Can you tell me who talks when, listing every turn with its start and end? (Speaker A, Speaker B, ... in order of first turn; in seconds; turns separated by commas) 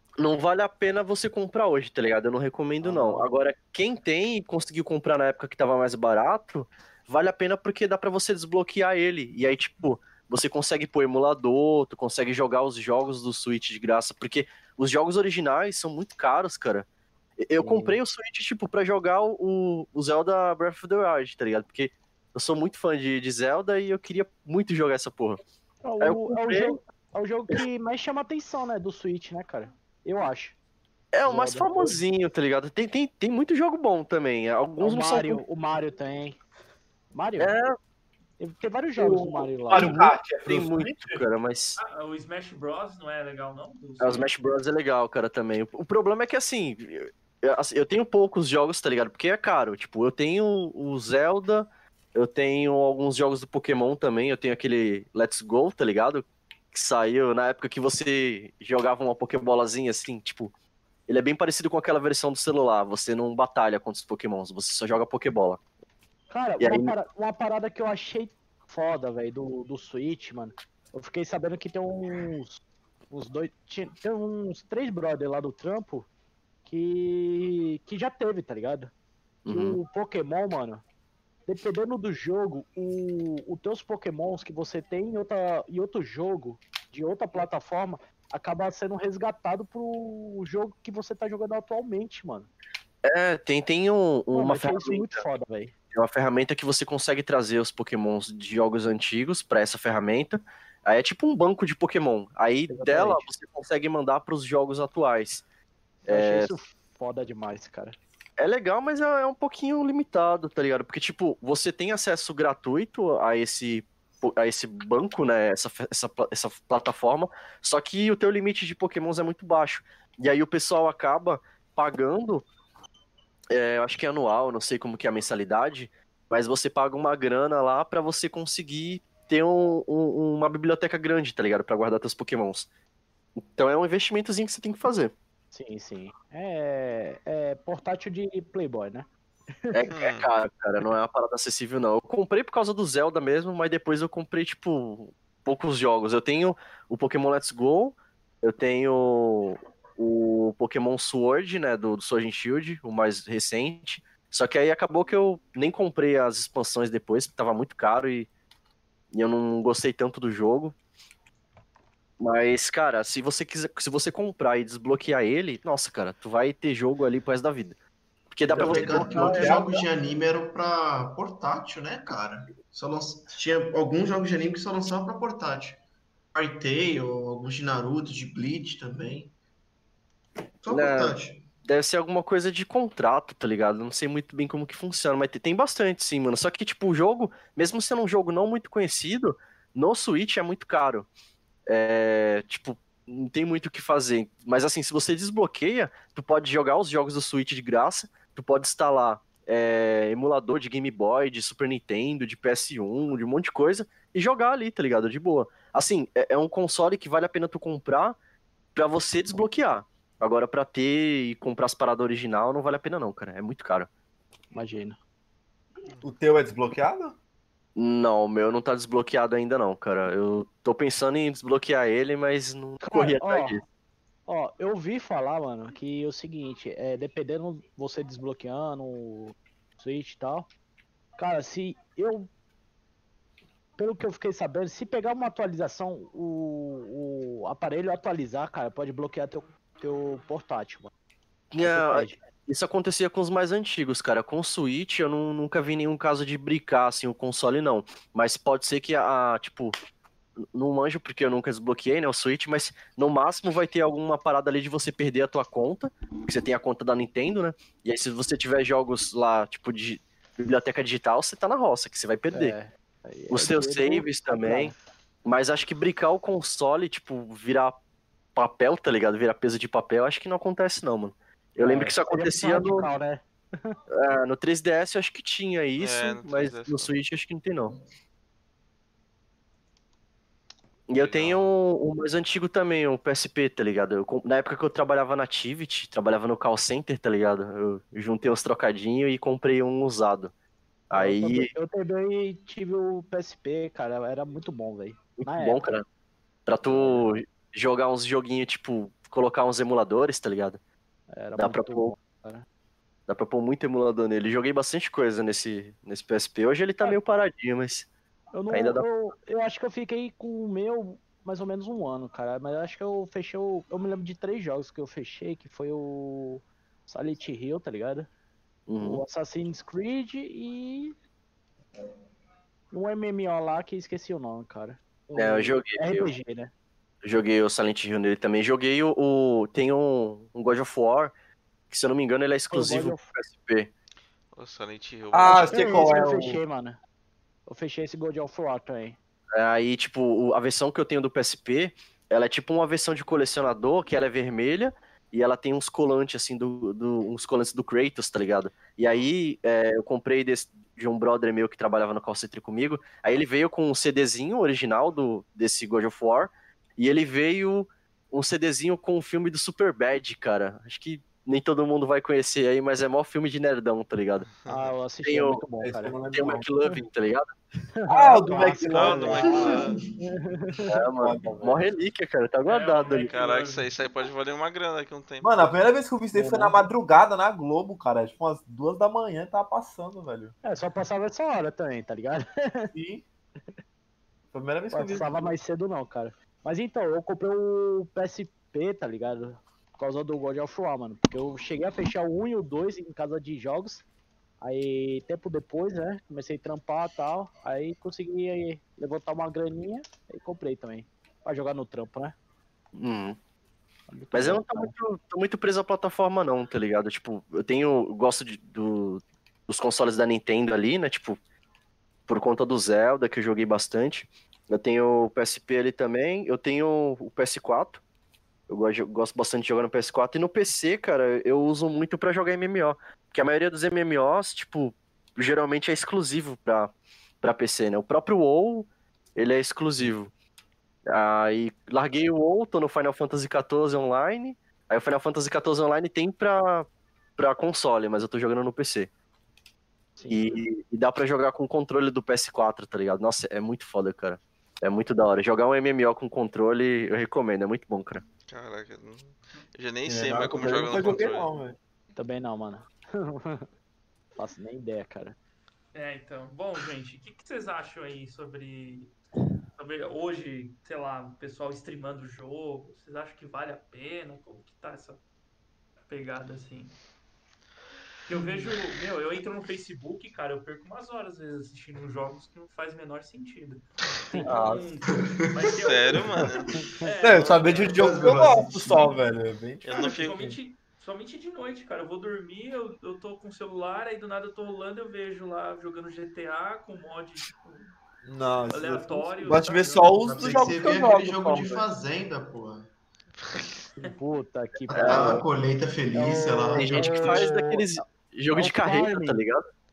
Speaker A: 0.2-16.9, Speaker B: 2.8-3.3, Speaker A: 17.4-25.4, Speaker B: 17.6-18.0, Speaker B: 25.8-30.6, Speaker A: 26.0-26.8, Speaker A: 31.1-35.4, Speaker B: 31.2-32.0, Speaker B: 34.8-36.4, Speaker B: 37.1-37.5, Speaker A: 37.4-37.8, Speaker B: 38.4-40.0, Speaker C: 39.0-41.2, Speaker A: 39.7-41.8, Speaker D: 41.8-44.3, Speaker A: 44.0-60.5, Speaker A: 61.1-65.6, Speaker B: 66.3-76.1, Speaker A: 66.6-67.0, Speaker B: 76.7-78.9, Speaker A: 79.5-79.8, Speaker B: 79.5-80.8, Speaker B: 81.5-92.5, Speaker A: 93.0-95.2, Speaker B: 94.3-95.7, Speaker A: 95.9-105.5, Speaker B: 102.7-103.3, Speaker A: 106.1-106.5, Speaker B: 106.1-108.0, Speaker A: 108.4-122.5, Speaker A: 123.5-132.7, Speaker A: 133.4-135.1, Speaker B: 135.5-139.1, Speaker A: 139.7-158.3, Speaker E: 139.9-140.3, Speaker A: 159.1-160.8, Speaker A: 162.2-167.8, Speaker A: 168.3-169.7, Speaker C: 168.5-169.8, Speaker F: 168.5-175.8, Speaker F: 176.3-179.3, Speaker F: 180.6-181.5, Speaker A: 180.7-191.1, Speaker A: 191.7-208.2, Speaker A: 208.8-213.9, Speaker B: 214.5-215.0, Speaker C: 216.0-217.2, Speaker A: 217.8-223.6, Speaker B: 222.8-223.6, Speaker B: 224.3-230.5, Speaker B: 231.2-232.3, Speaker B: 233.8-240.9, Speaker A: 241.5-249.7, Speaker B: 241.6-242.2, Speaker A: 250.5-262.5, Speaker B: 262.3-264.7, Speaker A: 263.3-267.8, Speaker A: 268.4-272.9, Speaker B: 271.6-273.8, Speaker A: 273.9-277.8, Speaker E: 275.8-276.9, Speaker A: 280.9-290.3, Speaker E: 281.0-281.5, Speaker A: 290.9-291.5, Speaker B: 290.9-295.7, Speaker A: 295.2-295.9, Speaker A: 296.5-300.6, Speaker B: 296.6-297.1, Speaker B: 301.1-302.4, Speaker A: 301.4-301.9, Speaker A: 303.1-307.9, Speaker B: 308.3-318.1, Speaker A: 308.5-308.8, Speaker A: 318.7-319.0, Speaker B: 318.8-320.9, Speaker B: 322.7-326.5, Speaker A: 325.2-326.1, Speaker A: 327.0-331.1, Speaker A: 331.7-333.7, Speaker B: 332.5-333.0, Speaker E: 334.3-335.9, Speaker C: 335.1-336.4, Speaker B: 335.3-336.8, Speaker B: 337.5-339.0, Speaker A: 339.4-364.3, Speaker E: 364.3-364.7, Speaker B: 364.4-366.0, Speaker A: 365.0-365.4, Speaker C: 365.6-366.5, Speaker A: 366.1-367.3, Speaker B: 367.8-370.7, Speaker C: 367.9-369.7, Speaker E: 368.7-369.8, Speaker F: 369.2-369.9, Speaker A: 370.7-373.1, Speaker C: 371.0-371.6, Speaker D: 372.5-373.7, Speaker E: 373.1-375.4, Speaker C: 375.2-380.4, Speaker B: 376.1-376.6, Speaker B: 380.4-382.7, Speaker C: 382.7-383.0, Speaker C: 384.3-385.2, Speaker B: 384.7-393.8, Speaker B: 394.4-402.1, Speaker A: 402.8-403.2, Speaker B: 403.9-404.7, Speaker A: 404.1-411.2, Speaker A: 412.1-417.8, Speaker A: 418.5-430.1, Speaker A: 430.9-438.9, Speaker B: 440.0-440.4, Speaker A: 440.1-448.1, Speaker E: 448.2-451.3, Speaker C: 449.9-451.6, Speaker F: 450.2-450.7, Speaker B: 452.0-453.5, Speaker B: 454.2-455.2, Speaker D: 455.7-459.0, Speaker D: 459.6-465.0, Speaker D: 465.9-466.8, Speaker D: 468.1-477.6, Speaker C: 474.2-474.7, Speaker E: 475.6-476.6, Speaker C: 477.0-480.3, Speaker E: 477.1-477.8, Speaker F: 477.8-478.9, Speaker E: 479.6-480.3, Speaker D: 479.7-487.7, Speaker C: 488.0-491.7, Speaker D: 488.5-490.0, Speaker F: 490.0-492.7, Speaker B: 493.8-495.2, Speaker F: 494.7-497.3, Speaker A: 494.7-495.2, Speaker B: 495.9-499.2, Speaker A: 496.5-499.4